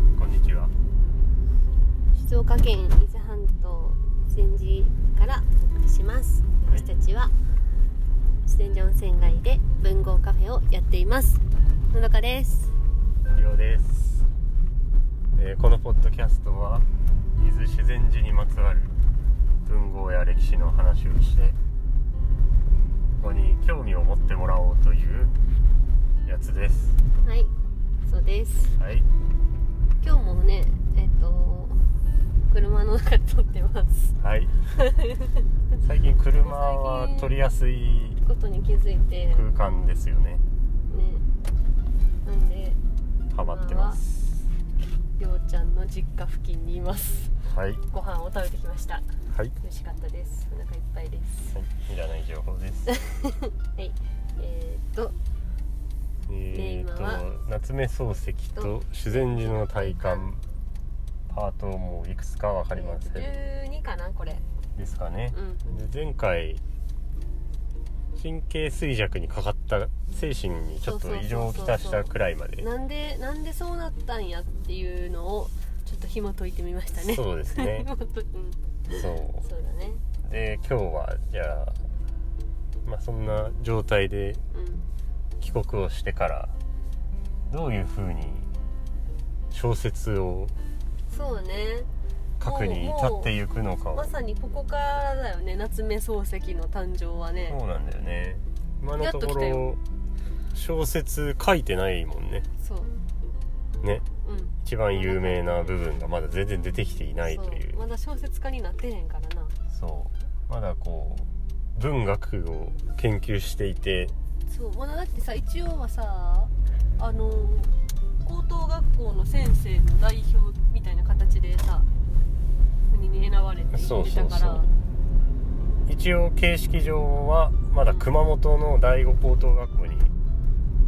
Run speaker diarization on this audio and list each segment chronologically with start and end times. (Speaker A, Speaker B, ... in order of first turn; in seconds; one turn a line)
Speaker A: 0.1-0.7
Speaker B: 2.1-7.3
Speaker B: 8.4-12.7
Speaker A: 13.3-14.3
Speaker A: 15.4-16.9
Speaker A: 17.4-18.9
Speaker A: 19.7-21.6
Speaker A: 23.2-25.3
Speaker A: 26.2-27.0
Speaker B: 27.2-27.5
Speaker B: 28.1-28.8
Speaker A: 28.8-29.1
Speaker B: 30.0-31.8
Speaker B: 32.5-34.1
Speaker A: 34.2-34.6
Speaker B: 34.7-35.4
Speaker A: 35.8-38.2
Speaker B: 36.4-37.3
Speaker B: 38.2-39.5
Speaker A: 39.3-40.4
Speaker B: 40.9-41.2
Speaker B: 42.2-42.8
Speaker A: 43.3-44.3
Speaker B: 43.4-44.0
Speaker B: 45.2-47.3
Speaker A: 47.5-47.8
Speaker B: 47.9-49.0
Speaker B: 49.6-51.6
Speaker A: 51.5-53.0
Speaker B: 52.9-55.1
Speaker A: 56.3-60.4
Speaker B: 56.5-57.2
Speaker B: 58.6-60.3
Speaker A: 61.3-63.4
Speaker B: 62.7-64.4
Speaker A: 64.8-66.6
Speaker B: 65.3-65.6
Speaker A: 68.2-72.7
Speaker B: 70.8-80.0
Speaker A: 77.0-77.9
Speaker A: 78.9-79.5
Speaker A: 80.2-81.8
Speaker A: 82.8-84.4
Speaker B: 84.5-84.9
Speaker A: 85.4-86.5
Speaker A: 87.5-88.5
Speaker A: 89.5-90.5
Speaker B: 91.1-91.9
Speaker A: 92.4-94.1
Speaker B: 92.4-93.3
Speaker B: 93.9-97.6
Speaker A: 97.4-99.8
Speaker B: 99.0-99.7
Speaker A: 100.5-102.5
Speaker B: 102.6-103.0
Speaker B: 104.2-105.8
Speaker A: 104.6-107.8
Speaker B: 107.2-109.6
Speaker A: 109.7-114.1
Speaker B: 114.5-121.9
Speaker B: 122.9-124.7
Speaker A: 123.7-124.7
Speaker A: 125.9-130.1
Speaker B: 127.8-128.1